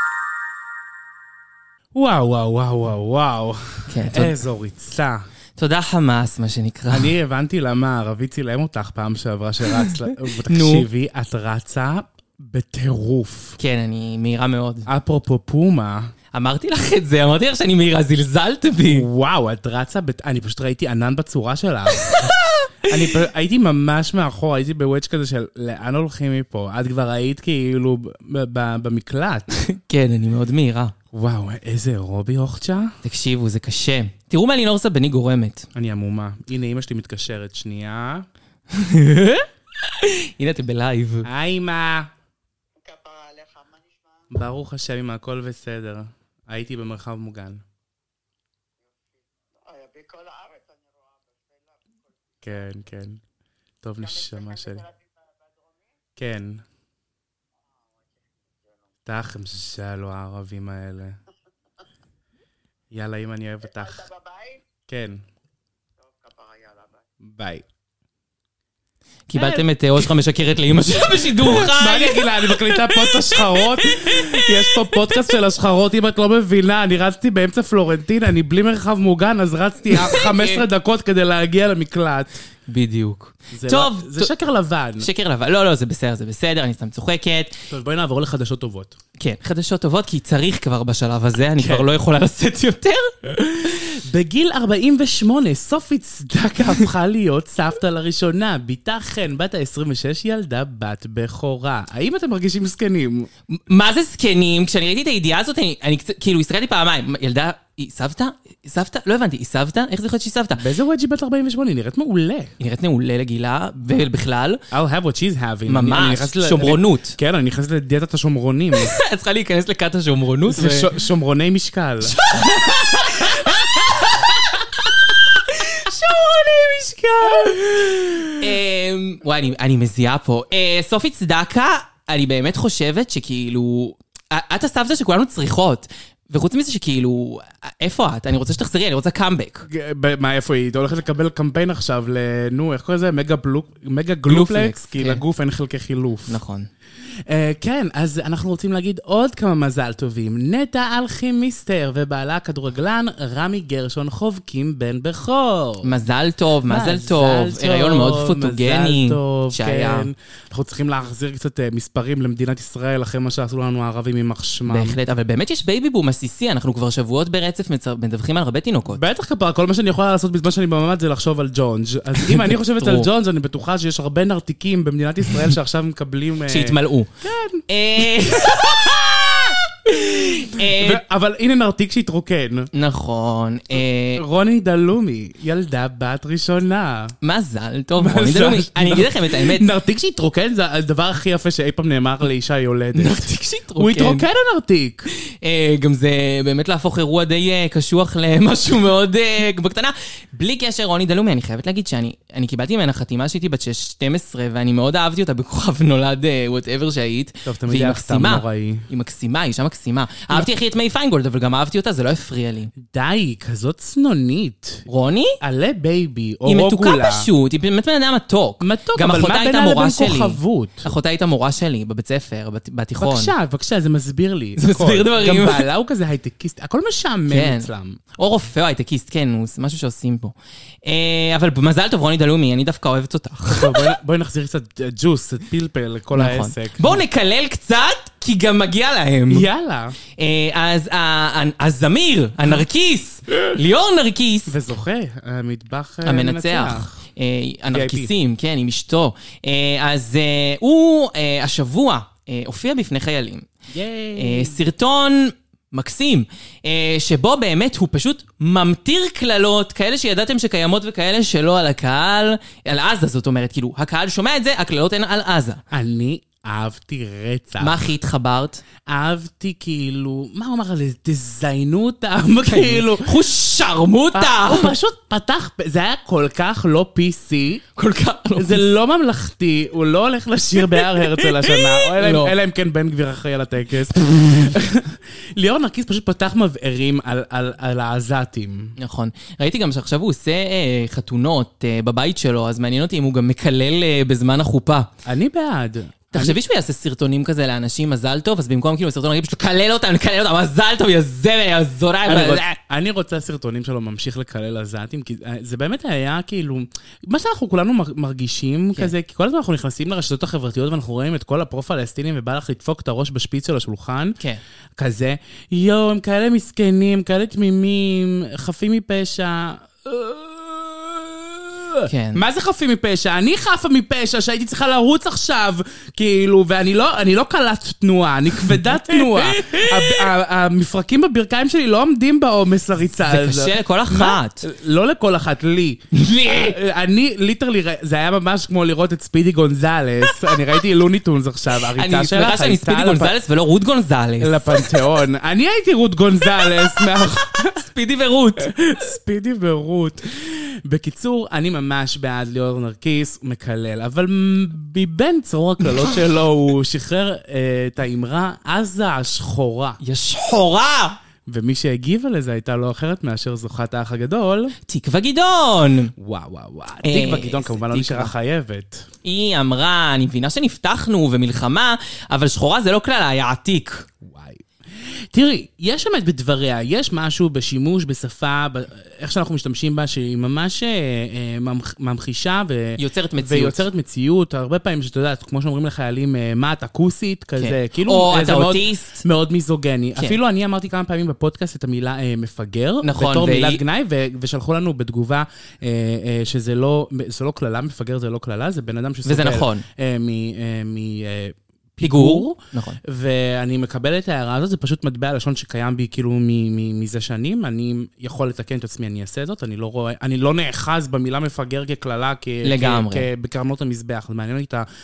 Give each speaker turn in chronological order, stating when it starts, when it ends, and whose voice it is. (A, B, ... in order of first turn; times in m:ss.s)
0:01.9-0:05.3 A
0:03.9-0:04.4 B
0:05.6-0:07.1 B
0:06.9-0:13.6 A
0:10.4-0:10.9 B
0:13.6-0:14.9 B
0:14.9-0:16.1 A
0:16.3-0:19.1 B
0:18.9-0:22.3 A
0:22.0-0:22.9 B
0:22.9-0:29.5 A
0:29.5-0:30.9 B
0:31.1-0:32.9 A
0:33.0-0:35.7 B
0:35.8-0:38.3 A
0:38.7-0:41.3 B
0:41.2-0:42.1 A
0:42.8-0:44.2 C
0:44.3-0:47.6 A
0:49.6-0:52.4 C
0:52.4-0:53.2 A
0:53.8-0:54.9 A
0:54.1-0:55.9 C
0:56.2-0:56.6 A
0:59.1-1:01.2 A
1:02.9-1:04.1 A
1:04.1-1:04.6 C
1:04.9-1:05.2 A
1:06.1-1:07.0 C
1:07.2-1:07.6 A
1:09.3-1:15.2 B
1:09.4-1:09.6 A
1:11.1-1:22.4 A
1:19.9-1:20.6 B
1:22.7-1:24.3 B
1:23.5-1:25.1 A
1:25.0-1:27.6 B
1:27.7-1:29.0 A
1:29.2-1:33.2 B
1:31.6-1:31.9 A
1:33.3-1:43.3 A
1:43.5-1:50.6 B
1:50.6-1:52.5 A
1:52.6-1:54.6 B
1:54.7-1:59.0 A
1:55.7-1:57.2 B
1:58.7-2:00.9 B
2:00.5-2:02.2 A
2:02.0-2:19.7 B
2:03.3-2:03.6 A
2:07.4-2:08.4 A
2:19.7-2:26.4 A
2:24.3-2:25.2 B
2:26.3-2:26.7 B
2:27.3-2:35.9 A
2:35.8-2:40.1 B
2:36.7-2:45.0 A
2:44.7-2:49.0 B
2:48.9-3:02.7 A
2:52.2-2:53.1 B
2:56.5-2:57.1 B
2:57.7-3:01.0 B
3:02.7-3:04.2 B
3:04.2-3:07.2 A
3:07.2-3:09.7 B
3:08.0-3:15.1 A
3:13.0-3:14.2 B
3:15.4-3:32.7 B
3:27.5-3:28.9 A
3:32.8-3:34.9 A
3:34.9-3:35.4 B
3:35.4-3:37.3 A
3:36.5-3:43.3 B
3:38.6-3:40.9 A
3:43.0-3:48.0 A
3:44.6-3:45.7 B
3:47.3-3:53.9 B
3:53.5-3:57.0 A
3:56.1-3:59.5 B
3:59.3-4:00.0 A
4:00.2-4:04.6 B
4:04.5-4:06.9 A
4:06.0-4:13.5 B
4:07.7-4:08.1 A
4:13.7-4:14.6 A
4:14.2-4:25.6 B
4:25.7-4:27.8 A
4:27.6-4:28.6 B
4:28.9-4:33.2 A
4:32.4-4:34.8 B
4:34.1-4:37.6 A
4:37.8-4:38.7 B
4:38.4-4:48.8 A
4:41.0-4:42.3 B
4:48.8-4:54.9 B
4:55.0-4:56.4 A
4:56.1-5:02.4 B
5:02.1-5:14.2 A
5:14.8-5:43.2 A
5:21.9-5:22.2 B
5:28.9-5:30.0 B
5:33.0-5:34.5 B
5:35.9-5:36.6 B
5:41.7-5:44.7 B
5:44.2-5:47.7 A
5:47.4-5:48.5 B
5:48.4-5:59.8 A
5:59.8-6:01.0 B
6:01.3-6:04.6 A
6:04.7-6:05.9 B
6:06.0-6:08.9 A
6:06.8-6:08.1 B
6:09.0-6:13.9 B
6:14.0-6:14.4 A
6:15.1-6:54.7 A
6:22.8-6:23.6 B
6:27.4-6:29.0 B
6:32.8-6:33.6 B
6:39.0-6:39.7 B
6:41.8-6:42.8 B
6:52.4-6:53.1 B